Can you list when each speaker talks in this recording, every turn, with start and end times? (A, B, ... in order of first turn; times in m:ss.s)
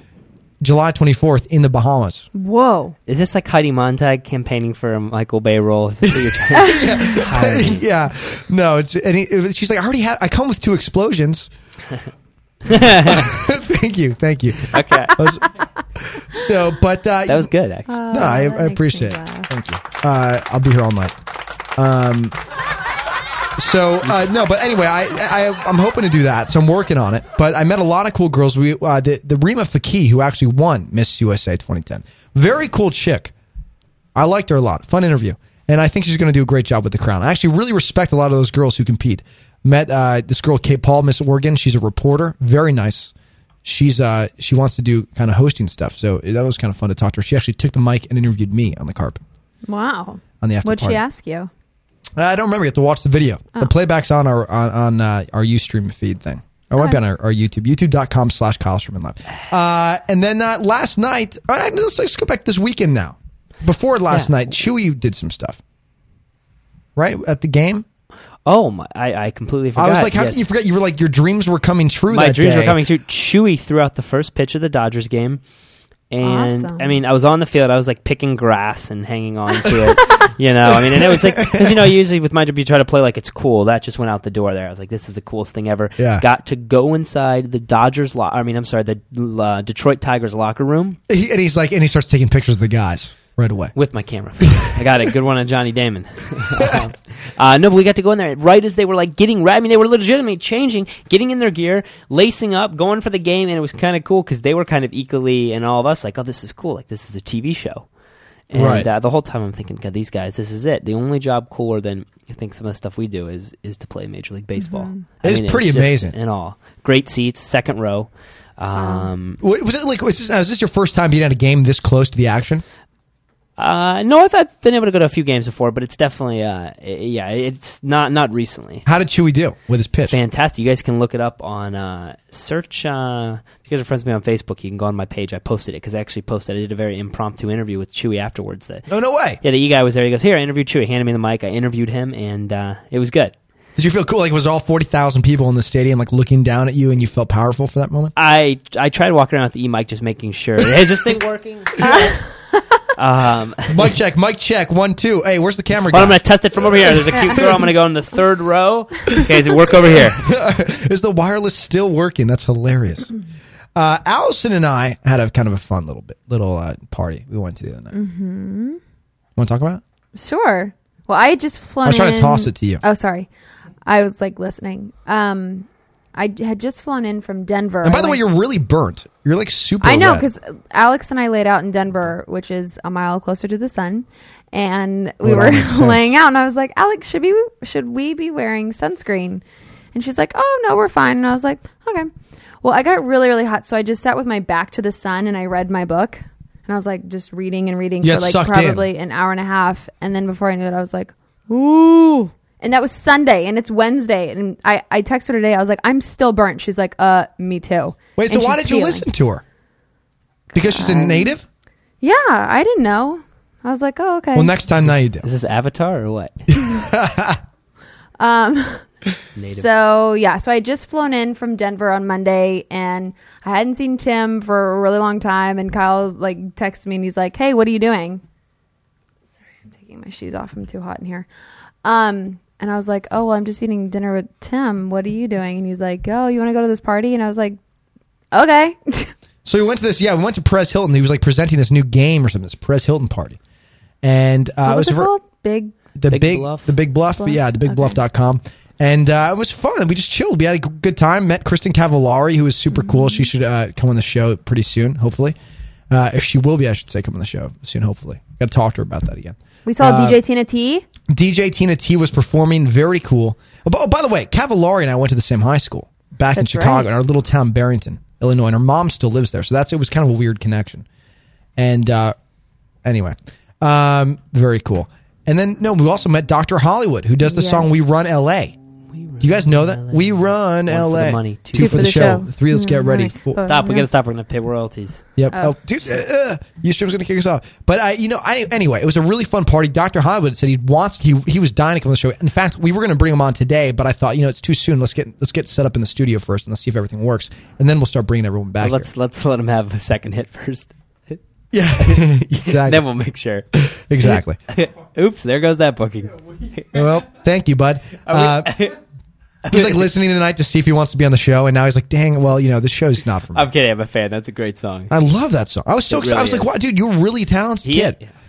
0:00.6-0:02.3 A
0:02.4-0:03.0 B
0:03.1-0:07.8 C
0:06.1-0:11.5 A
0:06.6-0:07.0 B
0:12.7-0:13.4 C
0:12.7-0:15.5 A
0:14.7-0:15.2 C
0:16.1-0:17.5 A
0:17.3-0:17.9 C
0:17.9-0:19.5 B
0:18.1-0:21.1 A
0:21.8-0:22.4 A
0:23.6-0:33.3 A
0:34.2-0:43.1 A
0:43.6-0:49.2 A
0:49.7-0:51.5 B
0:50.4-0:51.0 A
0:52.2-1:05.6 A
1:07.0-1:07.8 A
1:08.5-1:10.4 C
1:09.8-1:12.8 A
1:12.1-1:15.4 C
1:16.1-1:31.0 C
1:16.2-1:17.0 B
1:20.7-1:21.9 A
1:26.0-1:26.2 A
1:31.1-1:33.7 A
1:33.8-1:47.9 C
1:34.4-1:34.7 A
1:36.6-1:36.9 A
1:48.5-1:59.4 C
1:48.5-1:48.9 A
1:54.6-1:55.0 B
1:55.2-1:56.2 A
1:58.8-1:59.1 B
1:59.4-2:02.6 A
2:03.6-2:08.8 C
2:08.8-2:10.2 A
2:10.1-2:18.9 C
2:18.9-2:19.4 A
2:19.4-2:23.3 C
2:23.8-2:28.1 A
2:28.2-2:32.1 C
2:31.8-2:32.2 B
2:33.0-2:33.9 C
2:33.7-2:37.4 A
2:35.9-2:40.3 C
2:40.2-2:43.1 A
2:43.8-2:47.9 A
2:47.9-2:48.8 B
2:49.4-2:49.8 A
2:50.2-2:53.3 B
2:51.8-2:52.8 A
2:53.8-2:58.2 B
2:57.8-3:00.3 A
2:59.8-3:09.4 B
3:05.2-3:06.2 A
3:09.9-3:12.1 B
3:12.6-3:29.1 B
3:18.0-3:18.9 A
3:28.2-3:29.4 A
3:30.5-3:31.3 B
3:30.5-3:31.4 A
3:32.0-3:34.5 B
3:34.3-3:35.3 A
3:34.8-3:36.5 C
3:36.5-3:37.4 A
3:38.2-3:38.9 B
3:39.4-3:39.7 C
3:39.4-3:48.2 B
3:49.7-3:51.3 B
3:51.8-3:57.6 B
3:58.3-3:59.1 B
3:59.4-4:03.4 A
4:04.0-4:05.1 A
4:04.6-4:05.8 B
4:06.0-4:15.4 A
4:06.1-4:06.8 C
4:07.2-4:08.0 B
4:12.7-4:13.3 B
4:15.9-4:20.2 A
4:19.7-4:20.8 B
4:21.1-4:30.8 A
4:26.4-4:26.9 B
4:31.6-4:32.2 A
4:32.8-4:38.6 A
4:37.2-4:37.8 B
4:38.9-4:42.2 C
4:39.2-4:43.4 A
4:41.6-4:43.9 B
4:43.4-4:45.0 C
4:45.2-4:58.9 A
4:58.6-5:01.2 C
5:01.5-5:02.8 A
5:01.8-5:03.5 C
5:03.5-5:04.4 A
5:04.0-5:06.8 C
5:06.7-5:08.6 A
5:08.1-5:08.8 C
5:09.4-5:13.5 A
5:09.5-5:09.9 C
5:13.3-5:15.0 C
5:14.9-5:18.0 A
5:15.9-5:16.6 C
5:17.6-5:18.1 C